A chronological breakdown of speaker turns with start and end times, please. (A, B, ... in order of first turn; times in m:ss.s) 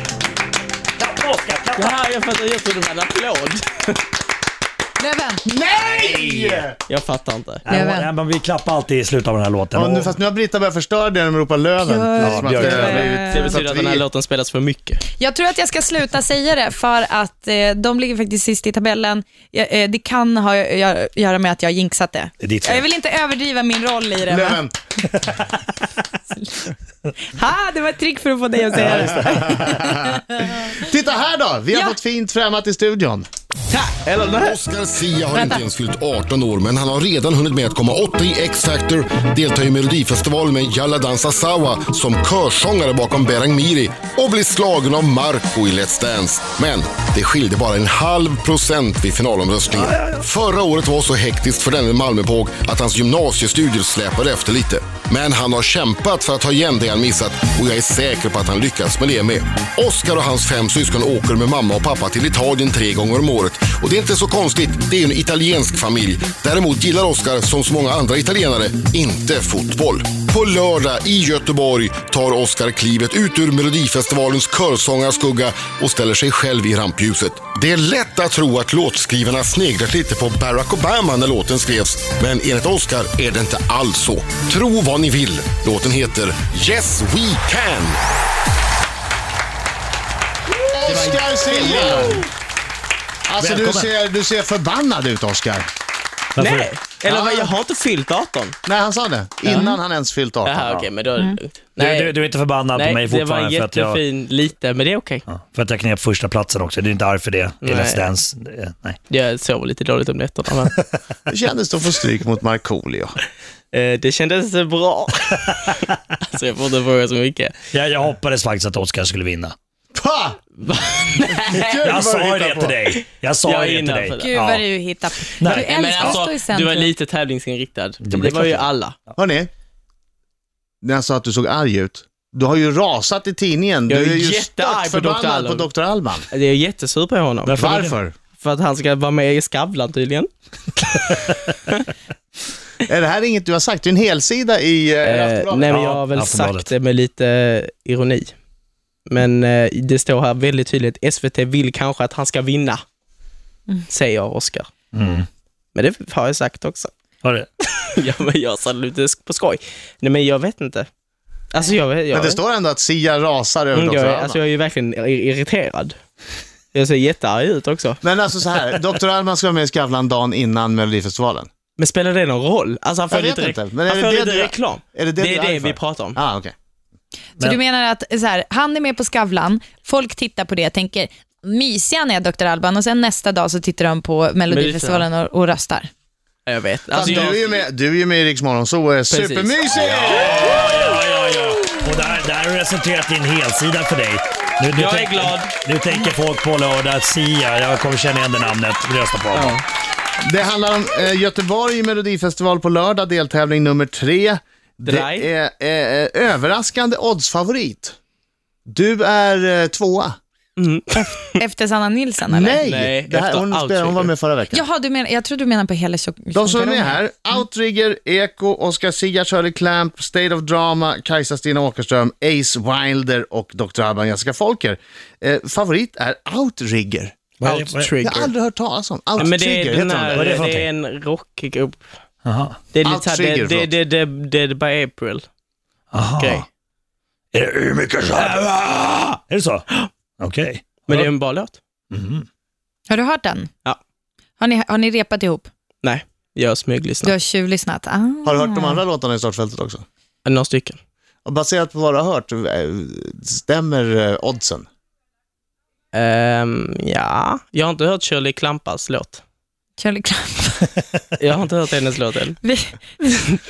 0:01.0-0:02.0 A
0:01.8-0:04.0 B
0:05.0-0:05.5 C
0:05.5-0:06.8 D
0:05.7-0:06.7 A
0:06.9-0:07.7 B
0:07.6-0:10.1 A
0:07.7-0:08.1 C
0:09.8-0:14.0 D
0:11.8-0:13.6 C
0:12.2-0:13.1 A
0:13.3-0:15.0 B
0:15.2-0:24.6 C
0:22.4-0:22.9 A
0:24.2-0:24.7 D
0:26.3-0:26.6 C
0:27.2-0:30.8 C
0:28.8-0:29.3 A
0:28.8-0:33.3 D
0:31.7-0:32.0 C
0:33.7-0:34.6 B
0:34.4-1:28.0 E
0:35.3-0:35.6 C
0:49.7-0:50.2 A
1:30.7-1:32.3 B
1:30.8-1:32.3 D
1:33.3-1:35.7 D
1:33.4-1:33.9 A
1:36.4-1:36.7 A
1:36.4-1:38.6 B
1:37.0-1:37.5 D
1:38.6-1:40.7 D
1:39.5-1:39.8 C
1:40.4-1:42.1 B
1:41.8-1:44.0 A
1:42.7-1:45.2 B
1:45.3-1:49.0 A
1:47.6-1:48.0 B
1:49.1-1:50.7 B
1:50.7-1:51.0 A
1:51.3-1:53.2 D
1:53.7-1:57.6 B
1:57.7-1:59.6 A
1:59.9-2:00.4 D
2:00.6-2:01.7 B
2:01.5-2:02.8 D
2:01.8-2:04.7 A
2:03.4-2:04.4 B
2:04.2-2:06.9 C
2:05.4-2:06.2 A
2:05.4-2:09.0 B
2:08.0-2:08.7 A
2:09.2-2:09.5 D
2:10.8-2:16.3 D
2:13.9-2:15.7 B
2:16.3-2:17.6 B
2:17.5-2:18.0 A
2:17.6-2:18.1 D
2:18.4-2:21.8 B
2:22.9-2:25.7 D
2:25.0-2:28.4 B
2:25.7-2:26.7 A
2:29.1-2:32.8 B
2:33.9-2:34.7 B
2:34.9-2:35.3 A
2:35.8-2:36.9 B
2:37.8-2:40.9 B
2:41.5-2:42.4 B
2:42.1-2:44.4 D
2:43.7-2:46.0 B
2:46.7-2:48.0 B
2:48.0-2:51.5 D
2:51.8-2:56.2 B
2:53.1-2:56.5 D
2:57.4-3:05.9 C
3:04.5-3:05.1 B
3:06.5-3:07.6 B
3:06.9-3:10.5 D
3:09.1-3:10.9 B
3:09.9-3:19.6 A
3:14.7-3:15.5 B
3:19.3-3:19.6 B
3:20.2-3:28.0 D
3:24.8-3:25.3 B
3:28.7-3:30.2 D
3:30.6-3:31.4 B
3:31.4-3:32.6 C
3:32.3-3:34.6 D
3:32.6-3:34.1 B
3:34.5-3:37.4 C
3:36.4-3:47.1 D
3:47.4-3:48.0 A
3:47.4-3:48.3 B
3:48.0-3:50.4 D
3:49.2-3:51.8 B
3:50.1-3:50.7 A
3:52.2-3:52.6 A
3:52.7-3:55.3 B
3:52.8-3:53.7 D
3:55.9-3:56.4 A
3:56.2-3:56.5 B
3:57.3-3:59.6 A
4:00.2-4:01.1 A
4:00.9-4:01.6 B
4:01.9-4:02.2 A
4:02.9-4:03.5 C
4:04.4-4:05.5 C
4:05.8-4:07.1 B
4:07.0-4:08.8 C
4:08.2-4:09.8 D
4:10.2-4:10.8 B
4:11.2-4:14.7 D
4:15.9-4:19.2 B
4:19.8-4:20.7 C
4:21.2-4:22.4 B
4:22.4-4:23.3 C